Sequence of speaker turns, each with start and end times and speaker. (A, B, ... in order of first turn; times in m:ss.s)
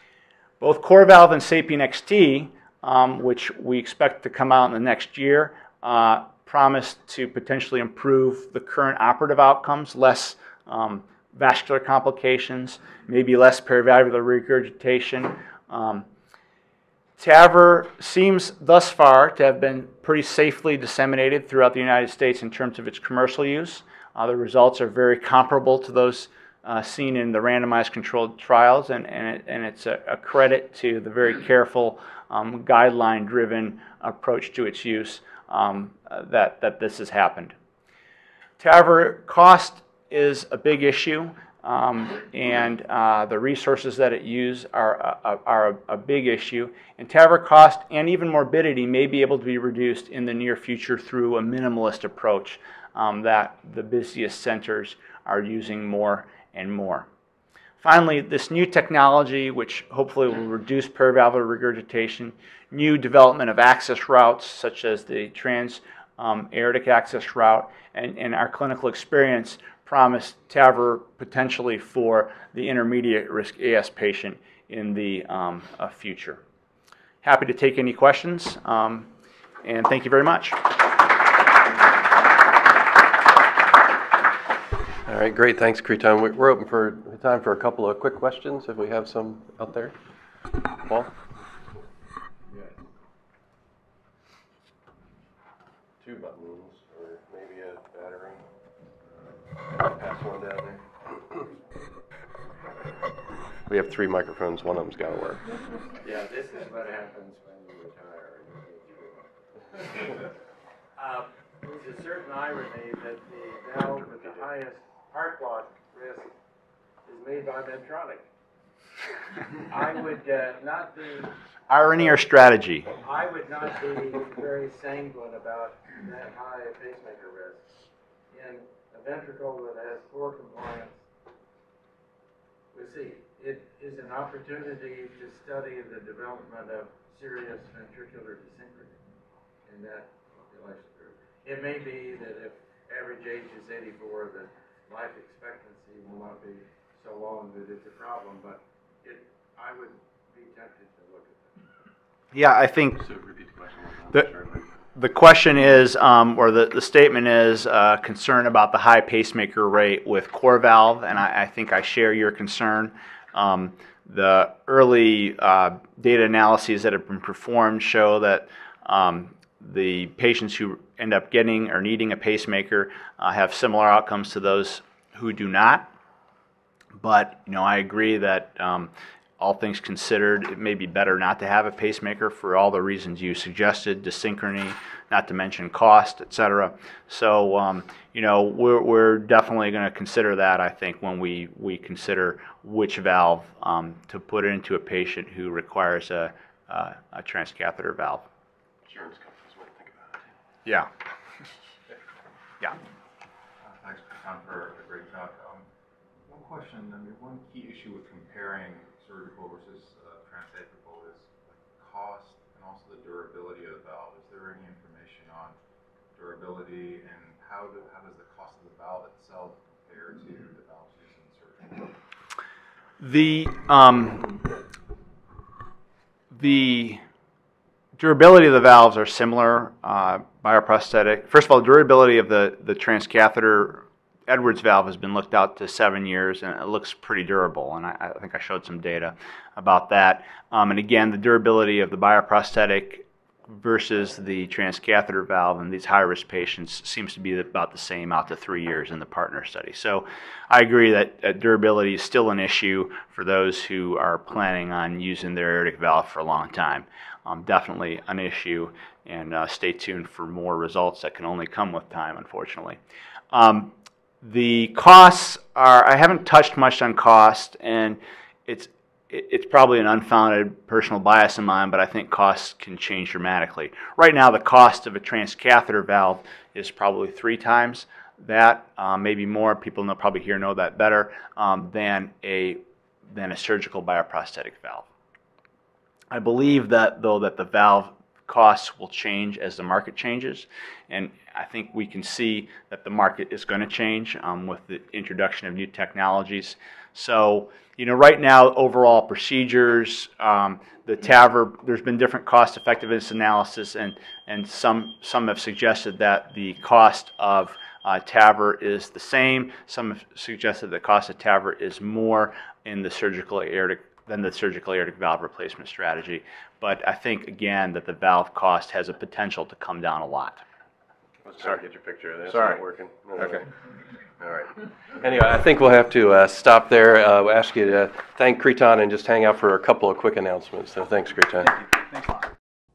0:00.6-0:16.0 A
0:17.2-0:37.5 A
0:38.6-0:57.0 A
0:57.8-1:16.4 A
1:17.2-1:19.1 A
1:19.6-1:21.0 A
1:25.0-1:29.9 B
1:30.7-1:31.1 B
1:36.0-1:38.4 B
1:39.7-1:40.8 B
1:43.7-1:45.4 B
1:46.0-1:50.3 C
1:51.0-1:56.3 C
1:57.0-1:58.2 C
1:59.6-2:01.4 C
2:01.7-2:02.9 A
2:03.0-2:07.7 C
2:08.3-2:11.0 C
2:12.7-2:19.0 C
2:19.6-2:31.6 C
2:32.3-2:33.0 A
2:33.0-2:34.6 B
2:34.9-2:55.9 A
2:57.0-3:18.2 A
3:18.8-3:20.2 B
3:20.6-3:20.9 A
3:23.6-3:25.6 D
3:26.3-3:35.6 D
3:36.1-3:41.9 D
3:43.0-3:44.4 A
3:46.3-3:47.0 A
3:48.0-4:22.8 A
4:23.3-4:44.9 A
4:46.1-5:20.4 A
5:21.2-5:23.5 B
5:24.2-5:31.7 B